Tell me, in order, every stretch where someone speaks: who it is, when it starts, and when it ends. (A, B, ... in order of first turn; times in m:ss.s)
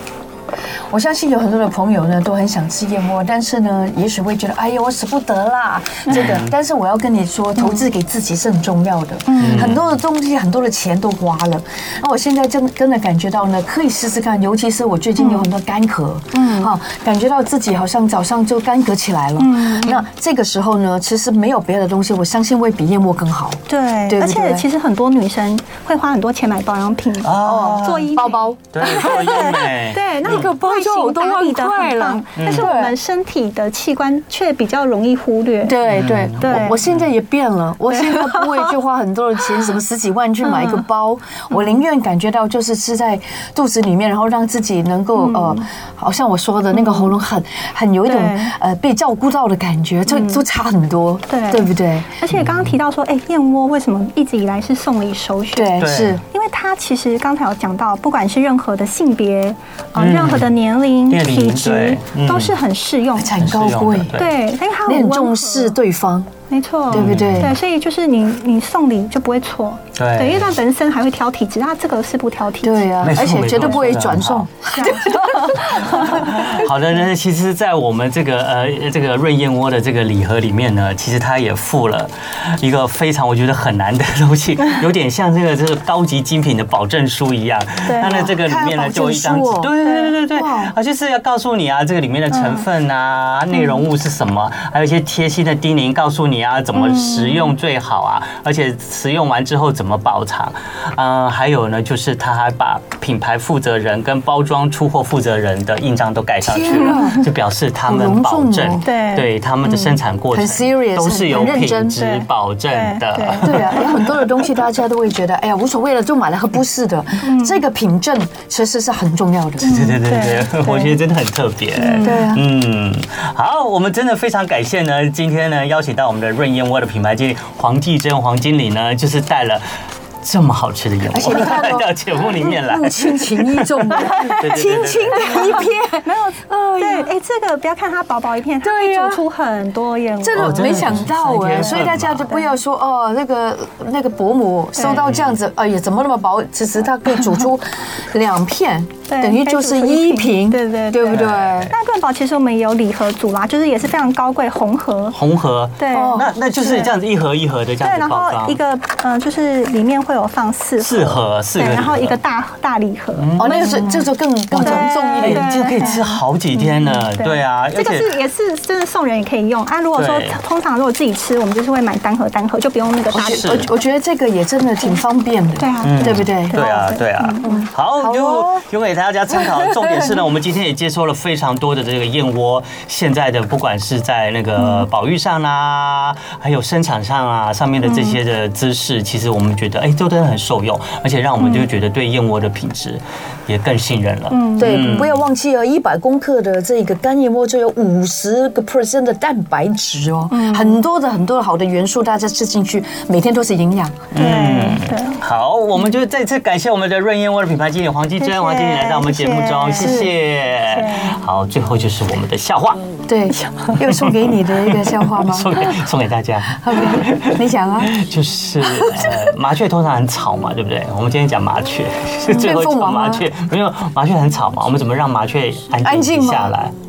0:00.9-0:24.7 A
0:06.1-0:06.5 B
0:07.6-0:07.8 C
0:09.3-0:09.8 C
0:09.4-0:09.8 B
0:15.2-0:15.5 C
0:16.3-0:16.7 C
0:19.4-0:20.0 C
0:23.7-0:35.8 C
0:27.2-0:28.2 B
0:27.4-0:29.6 A
0:28.7-0:30.4 B
0:30.2-0:32.9 A
0:32.4-0:32.8 B
0:35.6-0:52.2 A
0:35.9-0:37.0 B
0:36.4-0:36.8 C
0:37.9-0:38.8 C
0:40.4-0:40.8 C
0:41.5-0:41.8 C
0:45.2-0:45.6 C
0:46.7-0:47.2 C
0:48.1-0:48.6 C
0:50.1-0:50.4 C
0:51.3-1:03.4 C
0:52.3-0:52.7 B
0:55.5-0:56.2 A
0:55.8-0:56.2 B
1:00.0-1:00.5 B
1:01.1-1:02.6 B
1:03.2-1:04.2 A
1:03.3-1:04.3 B
1:04.1-1:05.8 C
1:04.8-1:06.3 A
1:06.5-1:13.7 C
1:06.9-1:07.5 B
1:06.9-1:07.5 A
1:10.0-1:10.6 B
1:12.6-1:16.6 A
1:13.0-1:14.5 B
1:14.7-1:16.1 C
1:15.8-1:53.9 B
1:27.9-1:28.3 C
1:28.1-1:30.7 A
1:29.8-1:30.2 C
1:32.3-1:32.7 C
1:33.5-1:33.8 C
1:36.8-1:37.5 C
1:46.4-1:47.3 A
1:46.7-1:47.2 C
1:47.9-1:48.9 A
1:48.8-1:49.3 C
1:49.6-1:52.0 A
1:52.0-1:54.2 C
1:53.4-1:59.7 A
1:57.2-1:57.6 C
1:59.6-2:01.0 C
1:59.6-2:09.6 B
2:01.8-2:02.3 C
2:02.0-2:02.4 A
2:10.2-2:15.6 B
2:11.1-2:17.1 A
2:15.2-2:21.0 C
2:18.6-2:19.2 A
2:20.2-2:31.7 A
2:20.3-2:22.3 B
2:21.7-2:22.6 C
2:24.8-2:25.3 B
2:29.1-2:35.2 C
2:31.1-2:31.7 B
2:35.1-2:38.6 B
2:35.8-2:36.3 C
2:35.9-2:36.9 A
2:37.8-2:44.0 C
2:40.8-2:42.2 B
2:43.2-2:44.0 B
2:43.4-2:46.0 A
2:44.5-2:48.1 B
2:44.5-2:53.7 C
2:50.0-2:50.4 B
2:53.1-2:56.6 A
2:53.3-2:53.6 B
2:55.6-2:57.6 C
2:55.8-3:15.2 B
2:57.4-2:58.6 A
2:59.6-3:00.0 A
3:04.6-3:04.9 C
3:07.8-3:08.2 C
3:11.4-3:11.7 C
3:14.3-3:14.9 C
3:14.6-3:24.0 A
3:20.3-3:20.8 C
3:24.1-3:32.9 B
3:24.2-3:25.2 C
3:28.2-3:31.2 C
3:29.8-3:30.1 A
3:33.1-3:35.8 A
3:33.7-3:46.7 B
3:36.5-3:38.0 A
3:38.6-3:39.2 A
3:42.3-3:43.3 A
3:45.8-3:46.5 A